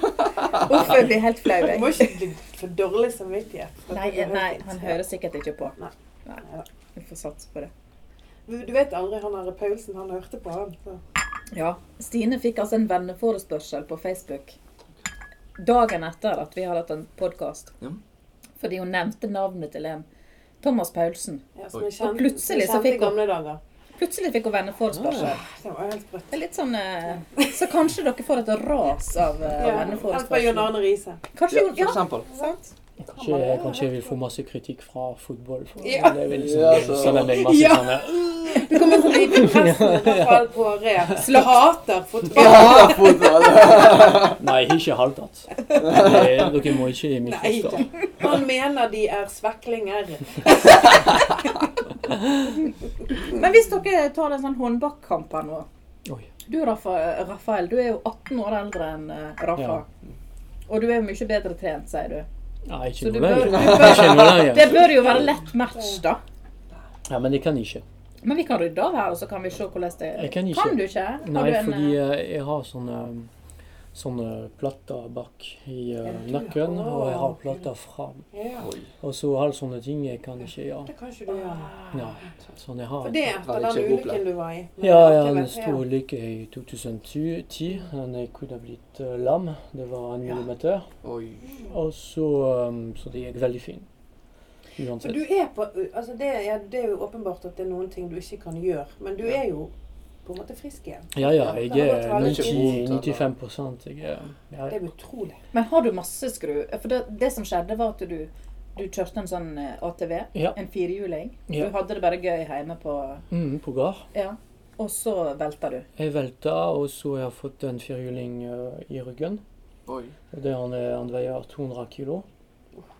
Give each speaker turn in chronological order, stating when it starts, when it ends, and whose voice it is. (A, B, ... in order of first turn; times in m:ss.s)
0:00.2-0:00.8 A
0:00.6-0:02.2 B
0:01.5-0:05.0 C
0:03.9-0:06.4 B
0:06.9-0:07.7 B
0:08.5-0:11.0 C
0:11.5-0:14.6 B
0:15.6-0:17.7 B
0:18.6-0:20.0 B
0:20.6-0:21.4 B
0:21.6-0:23.6 C
0:22.0-0:23.2 B
0:24.0-0:25.4 B
0:24.9-0:25.3 D
0:25.2-0:26.3 C
0:26.3-0:30.8 B
0:29.6-0:31.2 C
0:31.3-0:32.7 B
0:31.5-0:32.3 A
0:33.1-0:40.5 D
0:33.1-0:34.1 C
0:35.8-0:44.0 C
0:36.3-0:37.6 A
0:41.2-0:41.6 B
0:42.3-0:44.4 A
0:44.3-0:47.9 D
0:45.8-0:46.5 A
0:47.2-0:51.4 C
0:53.3-0:55.6 B
0:56.5-0:59.8 B
0:59.6-0:59.8 D
1:00.7-1:02.3 B
1:02.6-1:04.8 D
1:03.0-1:06.2 B
1:03.5-1:04.4 C
1:03.5-1:04.5 A
1:07.1-1:07.8 D
1:08.2-1:12.0 B
1:10.1-1:13.3 D
1:13.9-1:18.3 D
1:16.0-1:17.7 C
1:18.3-1:18.7 C
1:18.6-1:18.9 A
1:19.0-1:20.9 D
1:20.8-1:21.8 C
1:21.3-1:22.2 B
1:21.9-1:23.2 D
1:23.0-1:25.8 C
1:23.4-1:24.2 A
1:24.8-1:30.9 D
1:31.0-1:31.5 A
1:31.7-1:33.9 D
1:34.8-1:35.2 D
1:35.0-1:39.7 C
1:40.2-1:42.8 C
1:41.1-1:44.8 D
1:42.1-1:43.3 A
1:44.7-1:45.4 C
1:45.5-1:53.2 B
1:51.5-1:51.7 D
1:53.3-1:54.0 D
1:54.1-1:55.8 B
1:56.0-1:59.4 D
1:59.8-2:00.1 A
2:00.3-2:02.2 D